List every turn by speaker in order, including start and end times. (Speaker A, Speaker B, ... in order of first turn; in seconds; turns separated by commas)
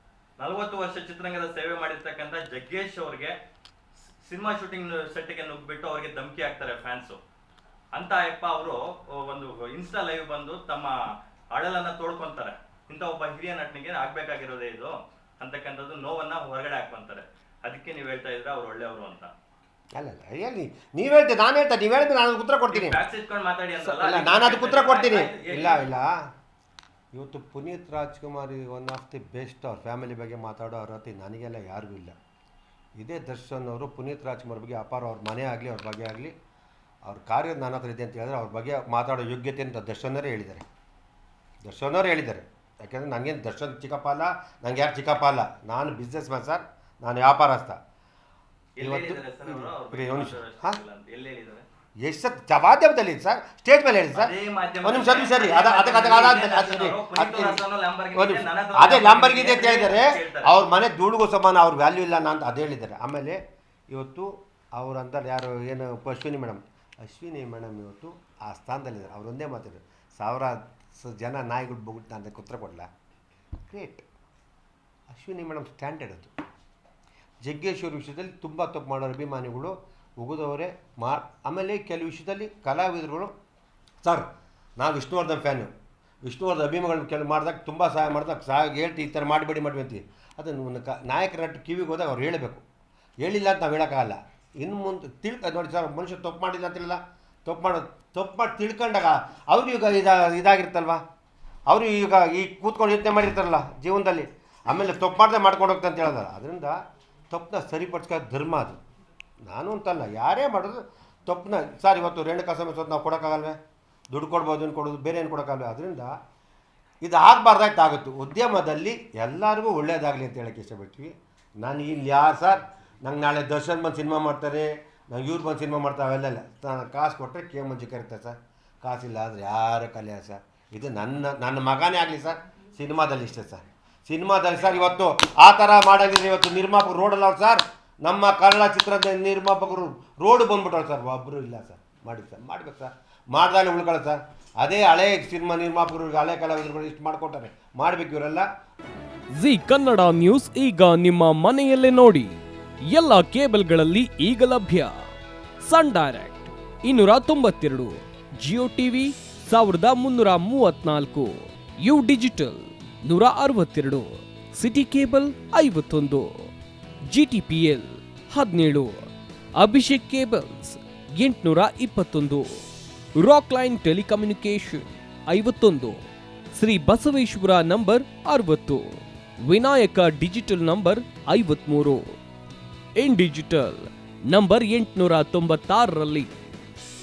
Speaker A: 0.4-3.3, Speaker A: 4.2-7.2, Speaker A: 7.9-10.9, Speaker A: 11.5-19.3, Speaker B: 20.0-23.0, Speaker A: 22.7-25.9, Speaker B: 23.8-26.2, Speaker B: 27.1-32.1, Speaker B: 33.0-36.3, Speaker B: 37.0-40.6, Speaker B: 41.6-47.8, Speaker A: 48.8-51.6, Speaker B: 48.8-50.8, Speaker B: 52.0-57.6, Speaker A: 54.1-60.5, Speaker B: 58.1-63.4, Speaker B: 63.9-72.9, Speaker B: 73.7-74.0, Speaker B: 75.1-76.3, Speaker B: 77.4-83.3, Speaker B: 84.0-85.7, Speaker B: 86.2-92.6, Speaker B: 93.2-101.0, Speaker B: 101.7-106.8, Speaker B: 107.3-108.8, Speaker B: 109.4-113.6, Speaker B: 114.1-116.1, Speaker B: 117.0-148.4, Speaker C: 149.3-152.4, Speaker C: 152.9-154.9, Speaker C: 155.6-166.5, Speaker C: 167.1-168.9, Speaker C: 169.6-172.6, Speaker C: 173.2-176.0, Speaker C: 176.5-182.1, Speaker C: 183.0-186.3